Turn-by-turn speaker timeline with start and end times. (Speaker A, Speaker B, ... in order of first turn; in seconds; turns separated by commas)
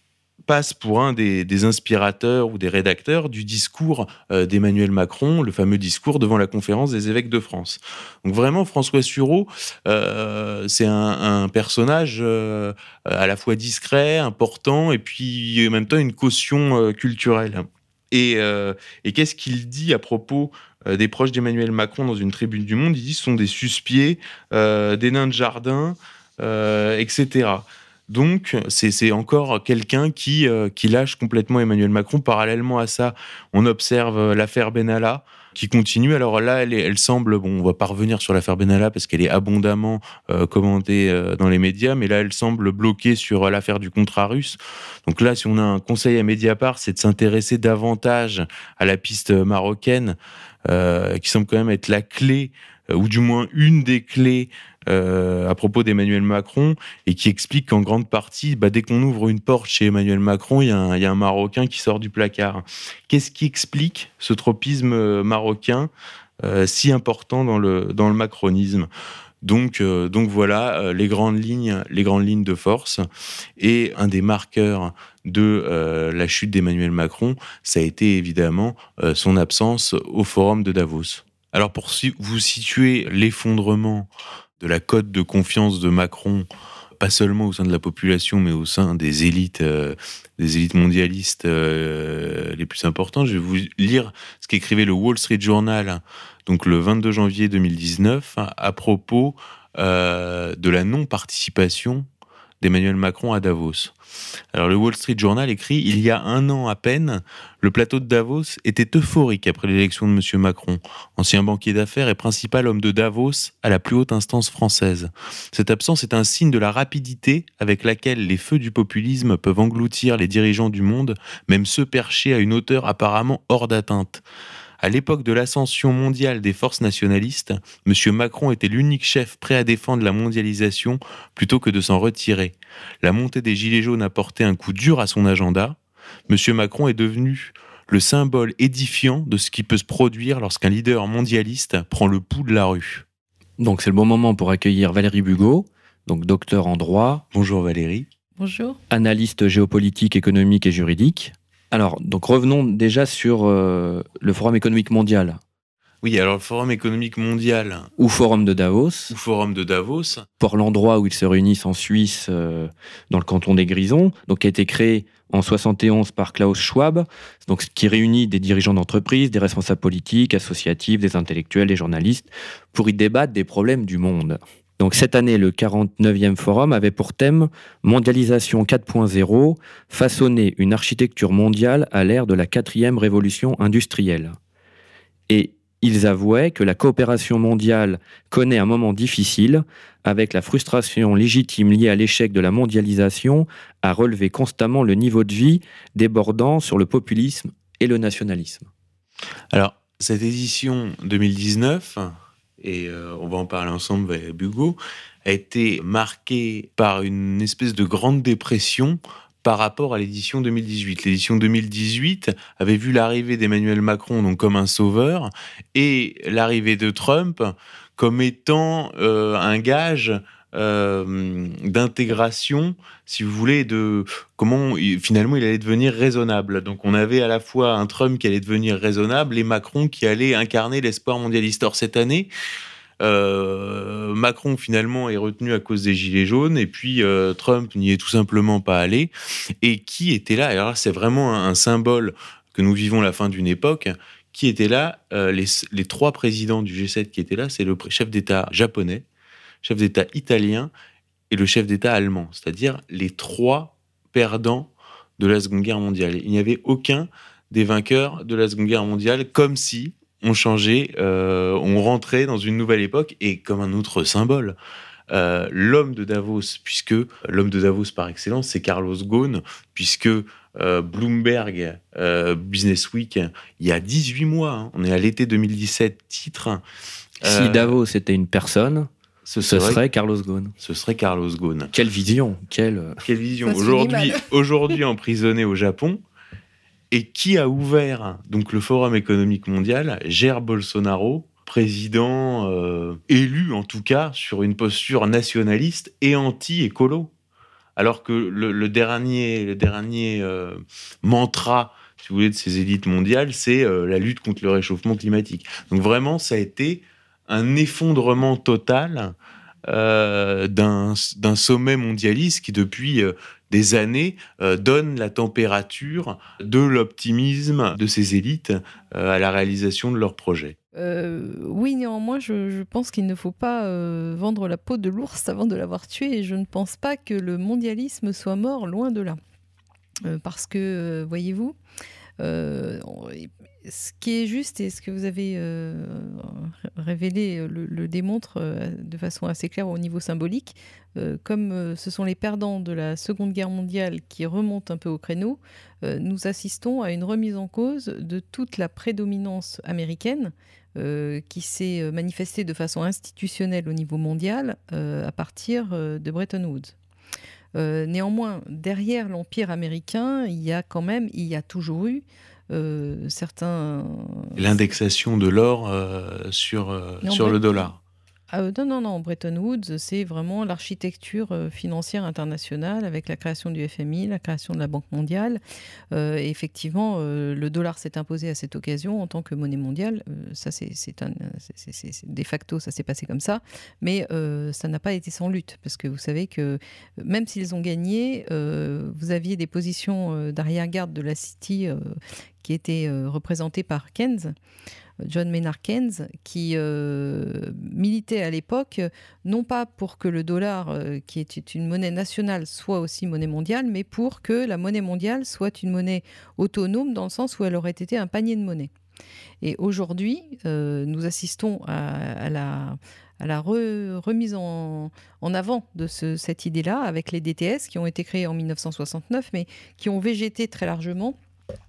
Speaker A: 0.5-65.9, Speaker A: 66.4-68.9, Speaker A: 69.4-73.0, Speaker A: 73.6-84.1, Speaker A: 84.6-86.5, Speaker A: 87.0-102.0, Speaker A: 102.6-103.9, Speaker A: 104.5-124.2, Speaker A: 124.8-135.8, Speaker A: 136.3-143.0, Speaker B: 143.6-147.2, Speaker A: 147.3-148.1, Speaker C: 148.4-148.8, Speaker B: 148.9-155.4, Speaker A: 156.0-157.9, Speaker B: 158.0-159.1, Speaker A: 159.1-160.2, Speaker B: 160.4-184.4, Speaker B: 185.3-198.7, Speaker A: 199.5-232.3, Speaker A: 233.0-239.1, Speaker A: 239.6-249.0, Speaker A: 249.6-250.7, Speaker A: 251.3-264.6, Speaker A: 265.1-276.6, Speaker A: 277.2-277.7, Speaker B: 277.2-278.9, Speaker A: 279.3-279.8, Speaker B: 279.5-280.5, Speaker A: 280.6-281.7, Speaker B: 281.7-283.0, Speaker A: 283.0-286.0, Speaker C: 283.4-284.3, Speaker A: 286.9-297.1, Speaker A: 297.8-309.1, Speaker A: 309.7-320.6, Speaker C: 320.7-329.2, Speaker C: 330.0-331.6, Speaker C: 332.2-356.7, Speaker C: 357.5-364.4, Speaker A: 364.4-367.8, Speaker C: 367.0-367.4, Speaker C: 368.3-375.4, Speaker C: 375.9-394.3, Speaker C: 395.0-408.7, Speaker C: 409.4-421.1